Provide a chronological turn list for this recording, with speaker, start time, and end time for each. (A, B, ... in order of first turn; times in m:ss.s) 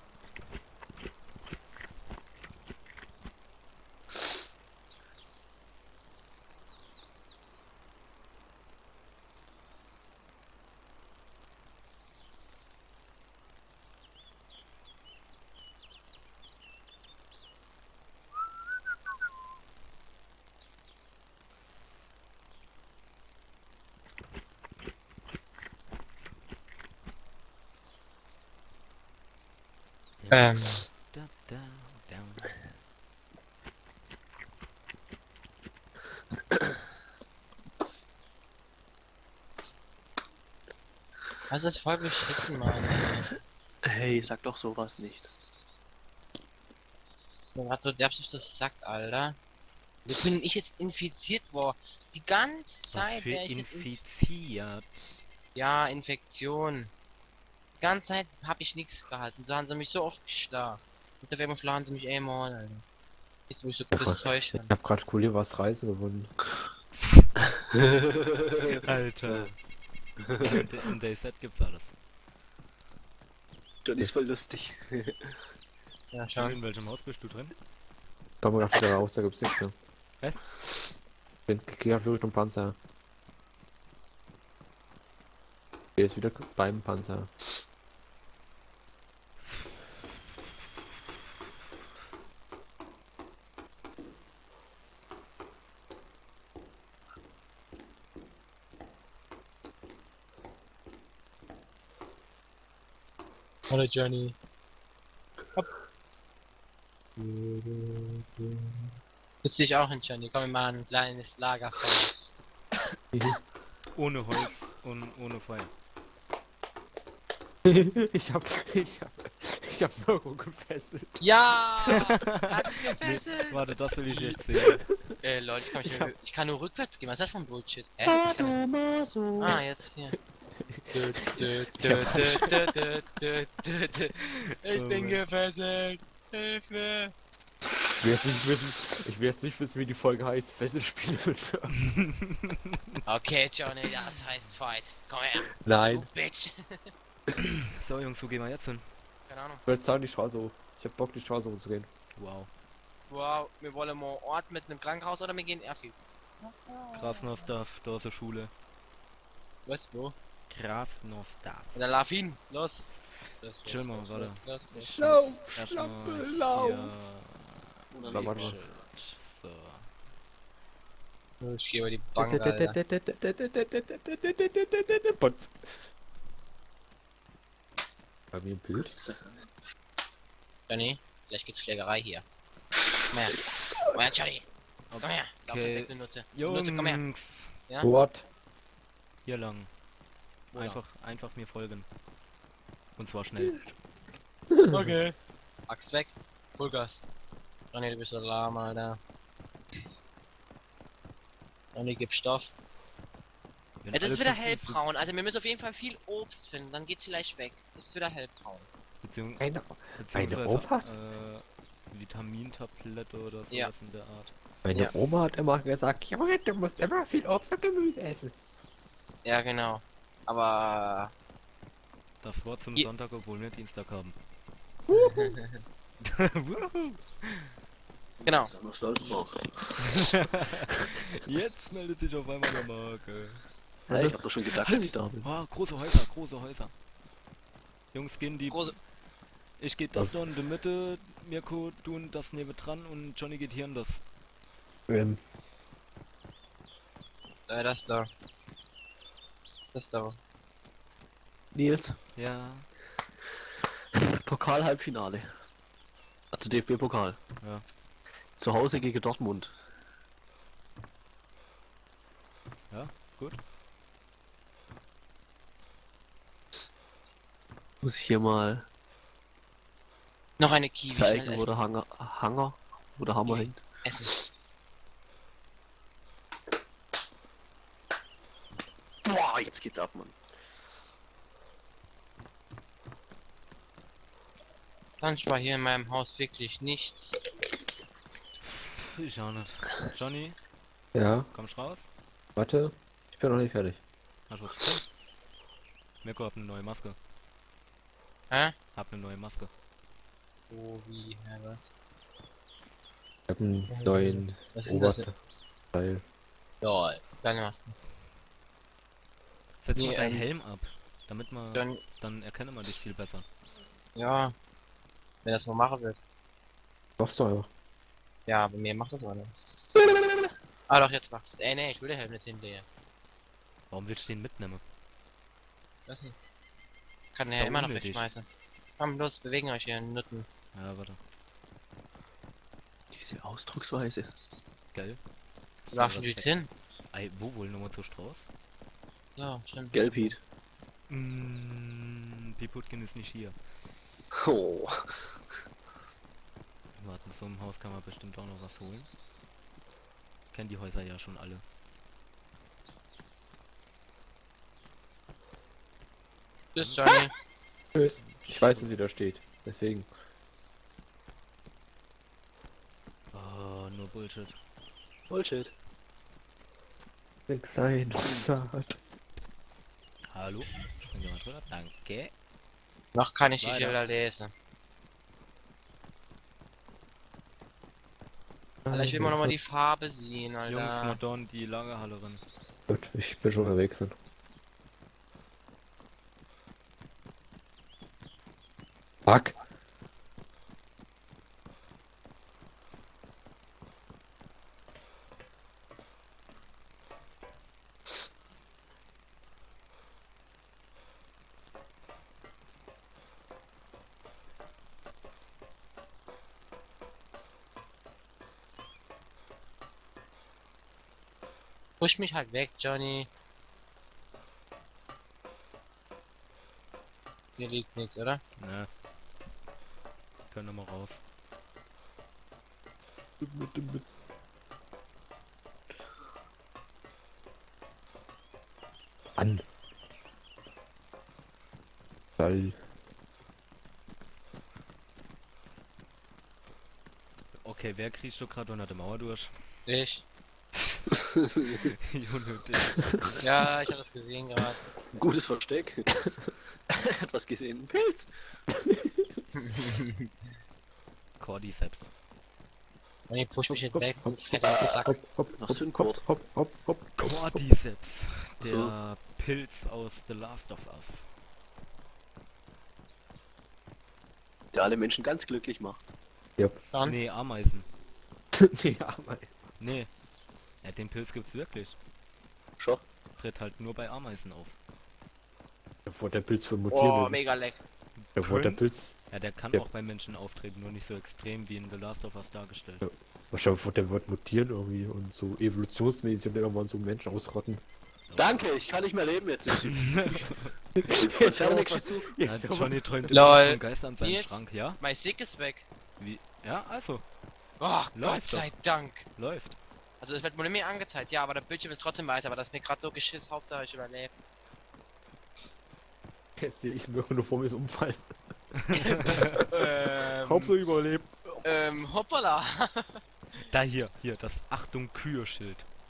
0:30.2-0:32.7 A
0:30.3-0:30.8 B
0:41.5-0:43.3 B
0:43.8-0:45.3 C
0:47.6-0:49.4 B
0:50.0-0:54.0 B
0:52.9-0:55.2 A
0:55.6-0:56.9 B
0:57.8-1:02.8 B
1:03.5-1:04.7 B
1:03.9-1:06.6 D
1:07.0-1:07.3 A
1:07.6-1:09.5 C
1:08.6-1:09.6 A
1:10.2-1:11.9 A
1:10.3-1:10.6 C
1:13.8-1:15.3 C
1:16.1-1:16.6 B
1:16.4-1:17.5 A
1:18.4-1:19.8 D
1:20.2-1:20.5 A
1:21.5-1:22.8 D
1:26.0-1:27.3 D
1:43.7-1:44.4 B
1:47.2-1:48.9 B
1:49.4-1:52.1 B
1:54.0-1:55.7 A
1:57.6-2:01.2 D
2:01.2-2:03.6 B
2:01.9-2:02.3 A
2:03.0-2:04.8 A
2:04.2-2:05.2 D
2:05.2-2:08.6 B
2:05.8-2:06.1 D
2:08.0-2:09.6 C
2:09.4-2:10.2 B
2:10.6-2:12.7 D
2:10.9-2:17.1 B
2:14.7-2:15.2 A
2:17.9-2:21.8 D
2:21.8-2:23.0 A
2:23.1-2:26.9 B
2:25.6-2:26.1 D
2:27.6-2:28.9 A
2:29.3-2:29.6 B
2:29.7-2:31.9 D
2:32.2-2:32.5 A
2:33.1-2:36.0 B
2:36.9-2:38.5 A
2:39.7-2:40.2 B
2:40.5-2:41.8 A
2:41.8-2:42.9 B
2:43.4-2:44.9 B
2:43.6-2:49.9 A
2:45.0-2:47.0 D
2:47.9-2:48.6 C
2:48.1-2:48.6 D
2:51.4-2:52.8 B
2:52.2-2:55.8 D
2:58.3-2:59.0 D
2:58.9-2:59.2 C
3:00.7-3:02.2 B
3:03.1-3:04.4 B
3:04.9-3:07.5 A
3:05.0-3:07.0 B
3:07.8-3:08.2 D
3:09.2-3:09.7 A
3:10.5-3:10.8 B
3:10.5-3:11.9 A
3:13.0-3:13.7 A
3:14.5-3:14.9 D
3:14.7-3:15.2 B
3:15.7-3:17.0 B
3:17.7-3:19.0 B
3:21.8-3:22.5 B
3:23.8-3:24.8 A
3:23.9-3:28.7 B
3:29.0-3:34.3 A
3:29.4-3:30.9 D
3:34.6-3:38.3 D
3:39.2-3:41.1 B
3:42.2-3:44.2 A
3:44.9-3:45.4 D
3:44.9-3:45.6 B
3:46.0-3:47.5 A
3:48.2-3:49.9 C
3:48.2-3:48.5 B
3:49.9-3:56.7 A
3:53.9-3:55.3 C
3:57.9-3:58.8 A
3:58.5-3:58.8 B
3:59.6-4:04.0 A
4:04.9-4:05.2 D
4:07.5-4:08.1 B
4:09.7-4:10.2 B
4:11.5-4:12.0 C
4:12.2-4:12.7 A
4:14.0-4:15.3 C
4:16.3-4:17.2 C
4:17.4-4:17.6 A
4:18.4-4:19.6 C
4:22.7-4:23.4 A
4:27.8-4:28.7 C
4:30.4-4:31.5 B
4:30.9-4:33.6 C
4:33.2-4:34.1 B
4:39.0-4:40.2 C
4:45.0-4:47.2 B
4:48.6-4:50.4 A
4:50.9-4:51.3 D
4:51.3-4:51.9 A
4:52.4-4:53.8 D
4:54.3-4:54.9 A
4:56.0-4:57.0 A
4:58.3-4:58.6 B
4:58.7-4:59.5 A
5:00.5-5:01.7 B
5:03.3-5:05.1 D
5:03.7-5:05.1 B
5:05.7-5:06.0 D
5:06.6-5:07.8 B
5:09.6-5:13.2 A
5:09.8-5:10.3 B
5:11.5-5:11.8 B
5:14.0-5:14.4 B
5:15.2-5:16.0 B
5:17.0-5:17.5 D
5:18.3-5:19.3 B
5:20.7-5:22.6 B
5:23.7-5:24.6 A
5:25.9-5:26.2 B
5:27.2-5:28.3 B
5:27.2-5:28.1 A
5:28.8-5:30.3 B
5:30.5-5:31.0 A
5:32.9-5:34.1 C
5:34.7-5:35.0 A
5:35.7-5:36.3 A
5:35.7-5:36.5 B
5:36.9-5:38.3 A
5:39.2-5:40.2 B
5:39.7-5:40.2 C
5:40.9-5:43.4 A
5:44.2-5:45.0 C
5:46.8-5:48.9 A
5:50.3-5:51.4 A
5:56.6-5:57.1 B
5:56.6-5:56.9 A
5:57.8-5:59.9 D
5:58.0-5:58.7 A
6:03.1-6:04.4 A
6:05.1-6:05.5 C
6:07.3-6:08.8 D
6:10.1-6:12.1 A
6:13.0-6:14.3 B
6:13.4-6:13.8 A
6:18.6-6:19.4 D
6:18.7-6:21.0 B
6:20.5-6:22.2 A
6:22.7-6:23.9 D
6:29.1-6:29.3 D
6:51.8-6:53.1 B
6:57.4-6:58.2 B
6:58.4-6:58.7 A
7:00.3-7:01.0 A
7:03.2-7:03.8 D
7:09.2-7:09.4 D
7:12.2-7:12.6 D
7:17.4-7:19.3 A
7:19.7-7:20.0 B
7:20.6-7:20.8 A
7:21.6-7:23.6 A
7:23.2-7:24.6 B
7:24.9-7:25.9 C
7:26.7-7:28.1 C
7:28.7-7:29.1 D
7:29.4-7:30.1 B
7:31.2-7:31.9 A
7:33.1-7:35.0 B
7:33.5-7:37.4 D
7:35.4-7:36.0 C
7:37.0-7:41.0 A
7:38.4-7:38.7 C
7:44.5-7:45.9 C
7:46.8-7:47.7 A
7:48.4-7:49.3 D
7:49.6-7:49.9 A
7:50.6-7:51.8 A
7:53.2-7:54.6 A
7:55.9-7:57.2 D
7:56.7-7:57.6 B
7:58.0-8:02.8 A
7:58.2-7:59.0 D
8:02.8-8:07.6 D
8:08.1-8:08.5 A
8:08.2-8:10.3 C
8:09.5-8:10.5 A
8:10.8-8:13.4 D
8:10.8-8:12.1 C
8:12.2-8:14.8 A
8:13.1-8:15.7 B
8:16.0-8:17.0 A
8:17.6-8:19.1 B
8:18.0-8:18.5 A
8:19.2-8:19.6 A
8:20.0-8:24.1 B
8:26.4-8:28.1 D
8:28.6-8:29.4 A
8:29.1-8:29.4 D
8:29.1-8:30.6 B
8:30.2-8:31.5 D
8:31.4-8:33.0 B
8:33.4-8:35.7 A